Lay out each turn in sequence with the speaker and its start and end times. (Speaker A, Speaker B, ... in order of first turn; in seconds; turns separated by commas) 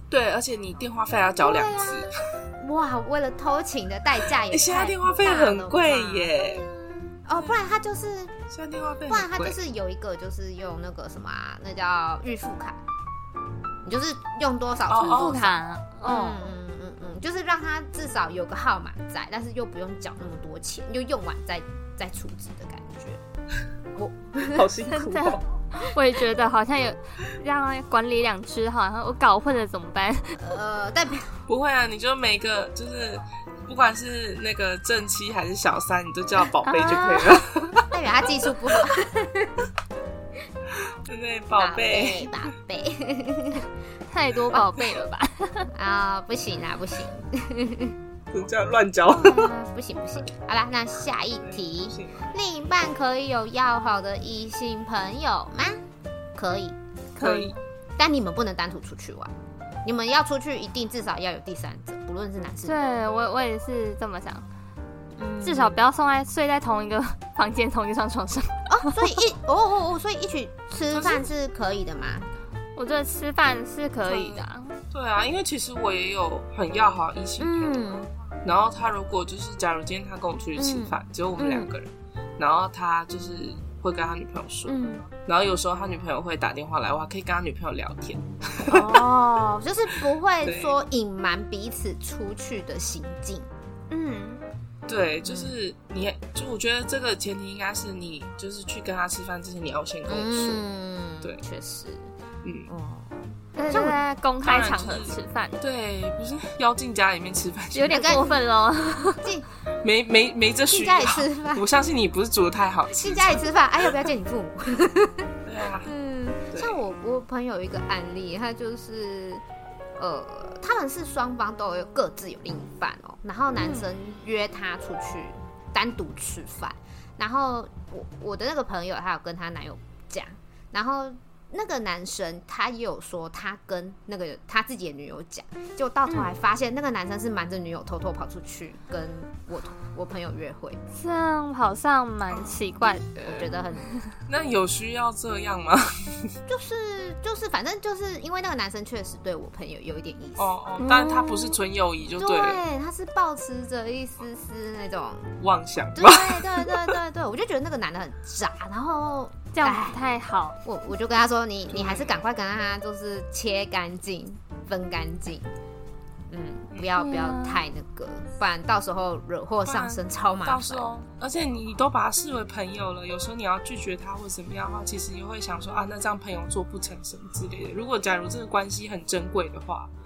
Speaker A: 0.1-2.2, Speaker B: 1.4-8.4, Speaker A: 4.5-6.7, Speaker A: 8.5-9.6, Speaker B: 9.1-12.8, Speaker B: 13.8-23.2, Speaker A: 14.9-15.4, Speaker C: 15.0-16.4, Speaker B: 23.9-24.6, Speaker A: 24.4-25.4, Speaker C: 24.9-30.4, Speaker B: 30.4-31.3, Speaker A: 31.5-38.0, Speaker C: 36.6-37.4, Speaker B: 37.9-39.6, Speaker A: 41.0-42.4, Speaker B: 41.6-43.7, Speaker C: 44.1-45.7, Speaker B: 45.7-48.0, Speaker A: 48.3-49.5, Speaker B: 49.1-55.8, Speaker A: 51.4-52.3, Speaker B: 56.3-56.8, Speaker C: 57.1-57.5, Speaker A: 57.2-57.5, Speaker B: 58.0-59.3, Speaker B: 59.8-62.8, Speaker C: 62.6-64.4, Speaker B: 65.2-65.8, Speaker C: 65.4-69.1, Speaker B: 68.7-72.3, Speaker A: 70.9-71.3, Speaker C: 72.8-74.7, Speaker B: 74.1-74.4, Speaker A: 74.9-77.8, Speaker B: 77.4-78.1, Speaker A: 78.4-89.0, Speaker B: 80.6-81.7, Speaker B: 84.7-85.1, Speaker B: 88.7-93.5, Speaker A: 90.4-90.8, Speaker C: 93.9-94.4, Speaker A: 94.9-100.6, Speaker B: 95.2-95.5, Speaker B: 100.1-102.1, Speaker A: 102.4-102.7, Speaker B: 102.7-104.0, Speaker C: 103.5-105.6, Speaker A: 104.4-108.2, Speaker C: 107.7-109.2, Speaker B: 107.8-108.4, Speaker A: 109.8-113.9, Speaker B: 110.7-111.7, Speaker B: 112.9-115.3, Speaker A: 115.5-115.9, Speaker B: 115.8-119.4, Speaker A: 116.5-116.8, Speaker B: 120.0-140.8, Speaker C: 123.6-123.8, Speaker C: 140.9-143.5, Speaker B: 142.4-143.9, Speaker A: 144.3-146.3, Speaker B: 146.5-150.5, Speaker A: 150.4-152.6, Speaker C: 150.8-151.6, Speaker B: 152.2-155.3, Speaker A: 155.4-157.0, Speaker B: 155.9-160.0, Speaker C: 159.5-160.6, Speaker B: 160.6-165.5, Speaker A: 161.7-162.2, Speaker B: 166.3-170.9, Speaker C: 167.0-167.6, Speaker A: 169.6-179.9